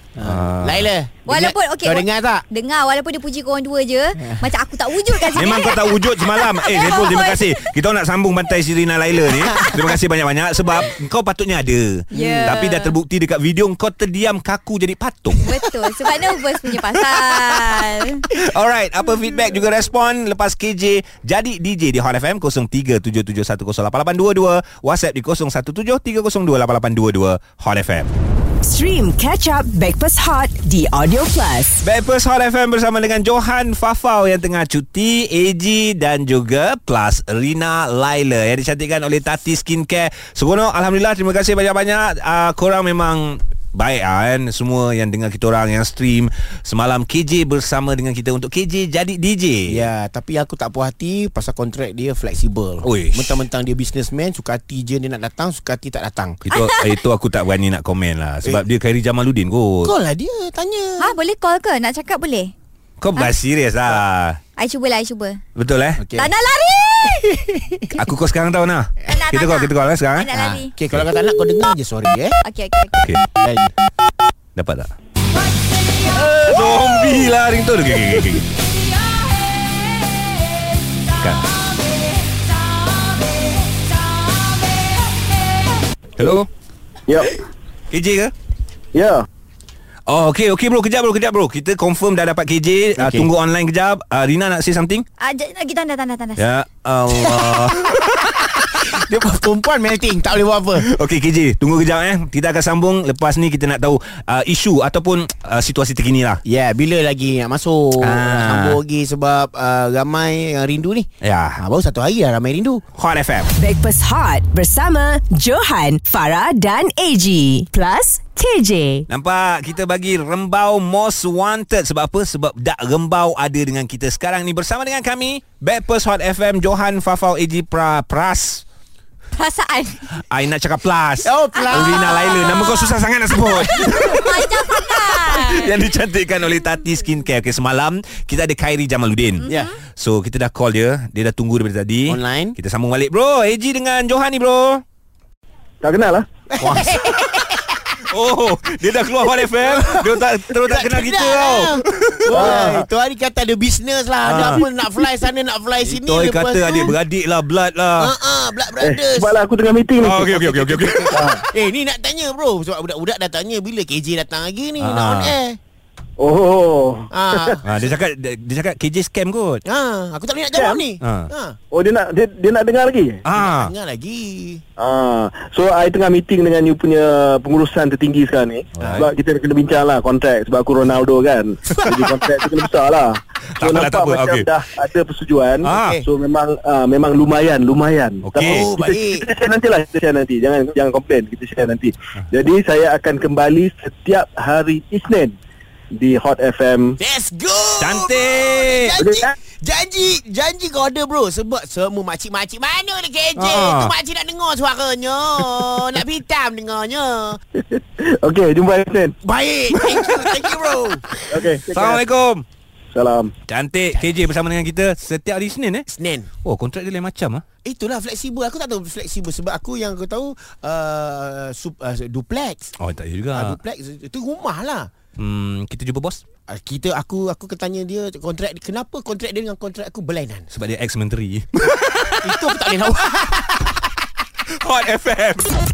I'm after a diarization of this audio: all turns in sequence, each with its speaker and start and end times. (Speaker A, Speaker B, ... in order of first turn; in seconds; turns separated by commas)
Speaker A: 0.2-2.4, Speaker B: 0.2-0.9, Speaker C: 1.3-7.5, Speaker A: 4.2-4.5, Speaker B: 5.3-15.7, Speaker A: 12.2-12.5, Speaker C: 12.2-13.0, Speaker C: 15.4-18.2, Speaker B: 16.8-17.7, Speaker B: 18.3-28.1, Speaker D: 28.6-31.8, Speaker B: 31.8-49.8, Speaker A: 49.7-56.4, Speaker B: 52.8-53.4, Speaker B: 56.5-59.9, Speaker C: 56.5-57.0, Speaker A: 59.8-61.2, Speaker C: 61.0-62.5, Speaker B: 63.0-64.4, Speaker C: 64.6-65.4, Speaker B: 65.6-66.1, Speaker A: 66.0-66.3, Speaker C: 66.2-67.3, Speaker A: 67.0-67.9, Speaker B: 68.0-71.1, Speaker C: 69.1-70.7, Speaker A: 70.8-72.3, Speaker C: 72.5-73.1, Speaker A: 73.3-73.7, Speaker B: 74.6-74.9, Speaker B: 76.1-78.5, Speaker B: 81.2-81.5, Speaker B: 86.2-86.5, Speaker E: 87.1-87.3, Speaker B: 87.9-88.3, Speaker E: 88.9-89.2, Speaker B: 90.1-95.0, Speaker A: 93.0-93.3, Speaker C: 95.2-96.6, Speaker B: 96.4-98.4, Speaker A: 97.3-97.6, Speaker A: 98.6-100.9, Speaker B: 100.8-106.4, Speaker A: 106.5-112.8, Speaker B: 108.0-108.8, Speaker B: 111.2-111.6, Speaker B: 113.0-113.5, Speaker D: 113.6-119.1, Speaker B: 119.1-128.6, Speaker C: 129.3-130.2, Speaker B: 130.3-139.5, Speaker A: 131.2-132.6, Speaker C: 131.6-133.0, Speaker C: 133.5-136.0, Speaker C: 139.4-139.7, Speaker A: 139.4-139.7, Speaker B: 140.0-144.8, Speaker A: 142.1-142.6, Speaker E: 145.8-146.3, Speaker A: 146.5-147.9, Speaker B: 146.6-147.4, Speaker B: 148.1-152.5, Speaker A: 149.2-157.0, Speaker E: 152.3-152.9, Speaker B: 154.2-154.6, Speaker B: 155.8-158.1, Speaker A: 158.0-159.4, Speaker E: 158.8-161.4, Speaker B: 160.0-161.2, Speaker A: 161.2-165.6, Speaker B: 164.8-165.3, Speaker E: 166.2-167.6, Speaker A: 167.1-167.6, Speaker B: 167.6-169.6, Speaker A: 169.7-171.6, Speaker E: 170.5-170.8, Speaker B: 171.0-171.3, Speaker E: 171.7-173.2, Speaker B: 173.2-173.7, Speaker A: 173.3-174.6, Speaker E: 174.8-195.3, Speaker B: 178.8-179.1, Speaker A: 178.8-179.1, Speaker B: 183.6-184.5, Speaker B: 185.6-186.0, Speaker A: 185.7-186.1, Speaker B: 188.3-188.7, Speaker A: 188.4-189.3, Speaker E: 195.9-197.0, Speaker A: 197.0-207.4, Speaker B: 197.8-199.0, Speaker E: 199.0-199.3, Speaker B: 203.4-203.9, Speaker E: 207.6-209.1, Speaker A: 209.2-211.4, Speaker B: 209.9-210.4, Speaker E: 211.3-212.0, Speaker B: 211.7-212.4, Speaker E: 212.9-213.3, Speaker B: 213.5-215.9, Speaker A: 215.9-216.3, Speaker B: 216.4-217.4, Speaker A: 217.6-222.7, Speaker B: 222.8-223.6, Speaker A: 223.3-224.9, Speaker B: 225.2-226.2, Speaker A: 226.5-230.5, Speaker B: 230.5-232.4, Speaker A: 232.2-233.9, Speaker B: 234.6-235.5